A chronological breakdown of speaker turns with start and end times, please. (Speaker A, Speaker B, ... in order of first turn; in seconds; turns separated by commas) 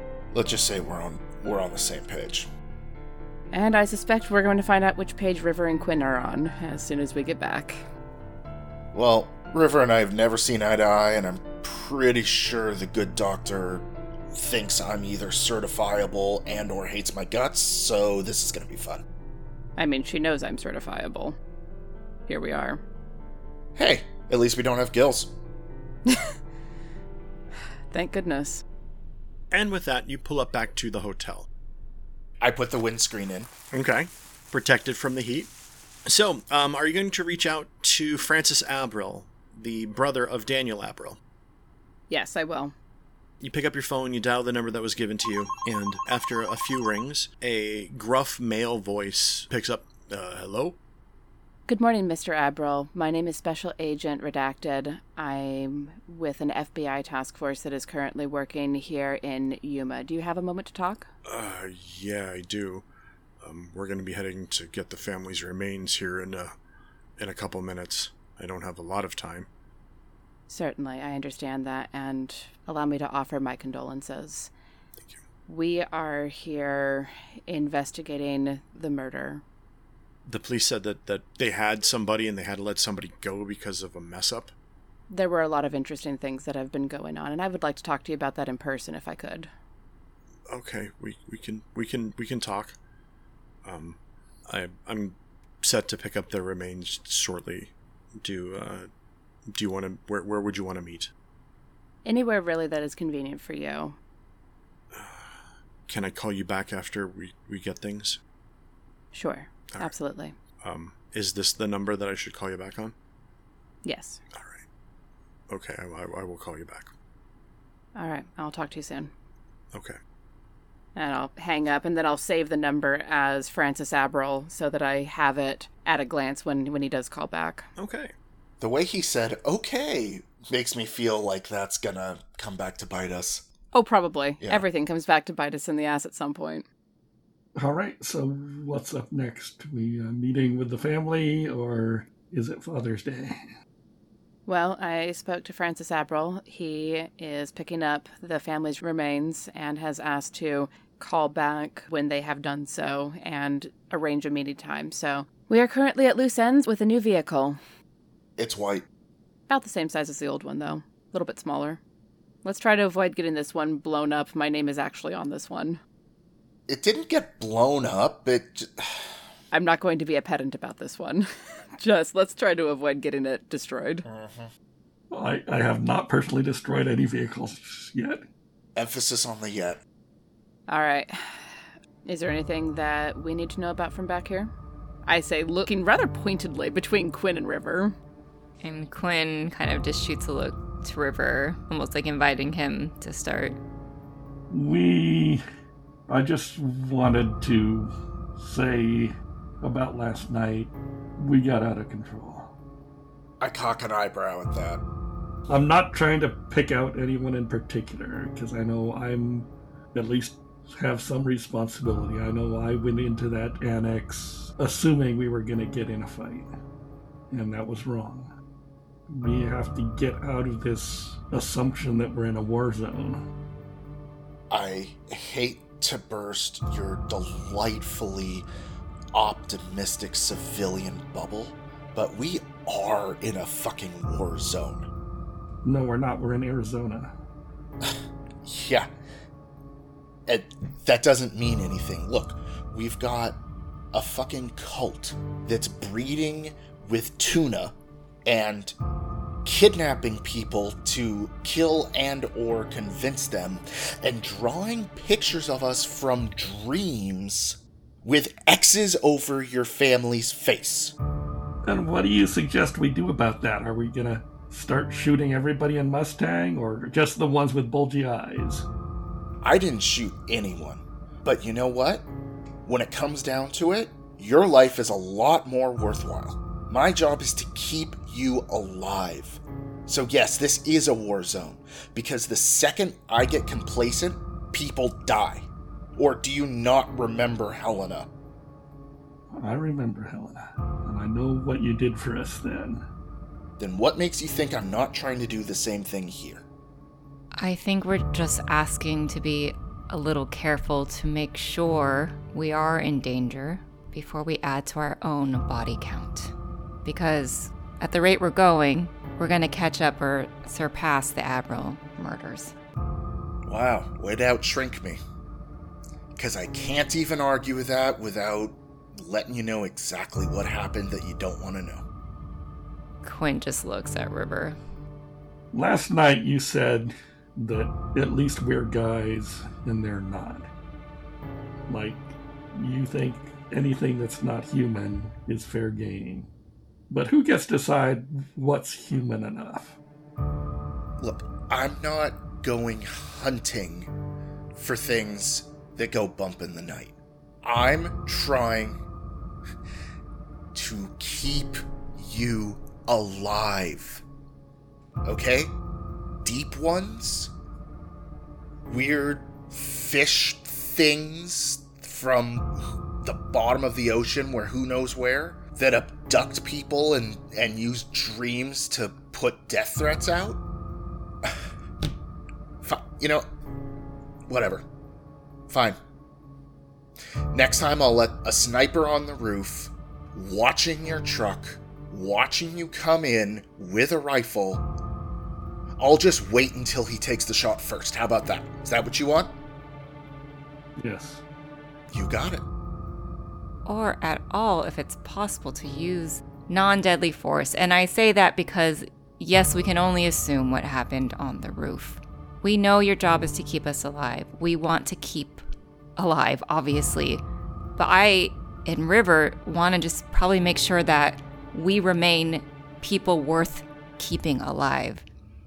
Speaker A: 0.3-2.5, Speaker B: 3.5-7.8, Speaker A: 8.9-19.0, Speaker B: 19.8-21.4, Speaker B: 22.3-22.8, Speaker A: 23.8-25.3, Speaker B: 26.1-26.4, Speaker B: 27.9-28.6, Speaker C: 29.5-31.5, Speaker A: 32.4-33.5, Speaker C: 33.7-35.5, Speaker C: 36.1-41.2, Speaker B: 42.1-42.8, Speaker C: 43.4-50.8, Speaker B: 51.7-61.1, Speaker C: 61.3-62.9, Speaker C: 63.4-66.5, Speaker C: 67.2-69.5, Speaker B: 70.5-74.5, Speaker B: 75.5-79.4, Speaker C: 80.3-84.5, Speaker B: 85.1-89.5, Speaker C: 90.5-92.8, Speaker C: 93.7-98.9, Speaker C: 99.5-101.1, Speaker B: 102.0-104.0, Speaker C: 104.9-108.2, Speaker B: 109.1-110.4, Speaker C: 110.6-112.9, Speaker B: 113.8-114.2, Speaker C: 114.3-114.6, Speaker C: 115.5-116.9, Speaker B: 118.0-119.1, Speaker B: 121.0-127.7, Speaker C: 127.8-128.1, Speaker A: 128.6-133.5, Speaker B: 133.7-136.7, Speaker D: 137.6-143.3, Speaker B: 144.5-157.6, Speaker A: 158.4-158.8, Speaker B: 159.5-161.8, Speaker B: 162.4-165.8, Speaker A: 166.7-169.2, Speaker B: 169.5-174.1, Speaker A: 174.1-174.5, Speaker D: 175.1-178.2, Speaker A: 178.8-179.8, Speaker B: 180.7-181.4, Speaker B: 182.1-184.5, Speaker B: 185.1-187.9, Speaker E: 188.6-193.6, Speaker D: 194.5-195.4, Speaker D: 196.1-202.5, Speaker A: 203.4-204.8, Speaker D: 205.5-216.5, Speaker D: 217.3-218.3, Speaker D: 219.1-223.2, Speaker A: 224.5-228.5, Speaker A: 229.1-234.9, Speaker D: 235.6-237.1, Speaker A: 237.8-238.9, Speaker A: 240.3-243.4, Speaker A: 243.9-247.8, Speaker A: 248.3-248.8, Speaker A: 249.4-260.9, Speaker D: 261.6-268.7, Speaker A: 269.4-272.1, Speaker A: 272.6-288.1, Speaker D: 289.3-292.8, Speaker A: 293.6-296.4, Speaker E: 297.4-306.3, Speaker E: 306.9-312.5, Speaker A: 313.5-315.0, Speaker A: 316.2-321.9, Speaker E: 323.0-324.6, Speaker D: 325.5-330.5, Speaker D: 331.7-336.3, Speaker D: 336.9-339.8, Speaker A: 341.0-343.9, Speaker A: 344.6-348.8, Speaker A: 350.5-354.0, Speaker A: 355.1-355.5, Speaker A: 356.2-357.3, Speaker A: 358.7-370.4, Speaker A: 372.6-373.2, Speaker A: 374.3-374.7, Speaker A: 375.5-375.8, Speaker A: 377.3-384.7, Speaker A: 385.8-389.3, Speaker D: 390.8-391.2, Speaker A: 391.9-392.4, Speaker E: 393.7-405.4, Speaker E: 406.0-407.2, Speaker E: 407.8-415.1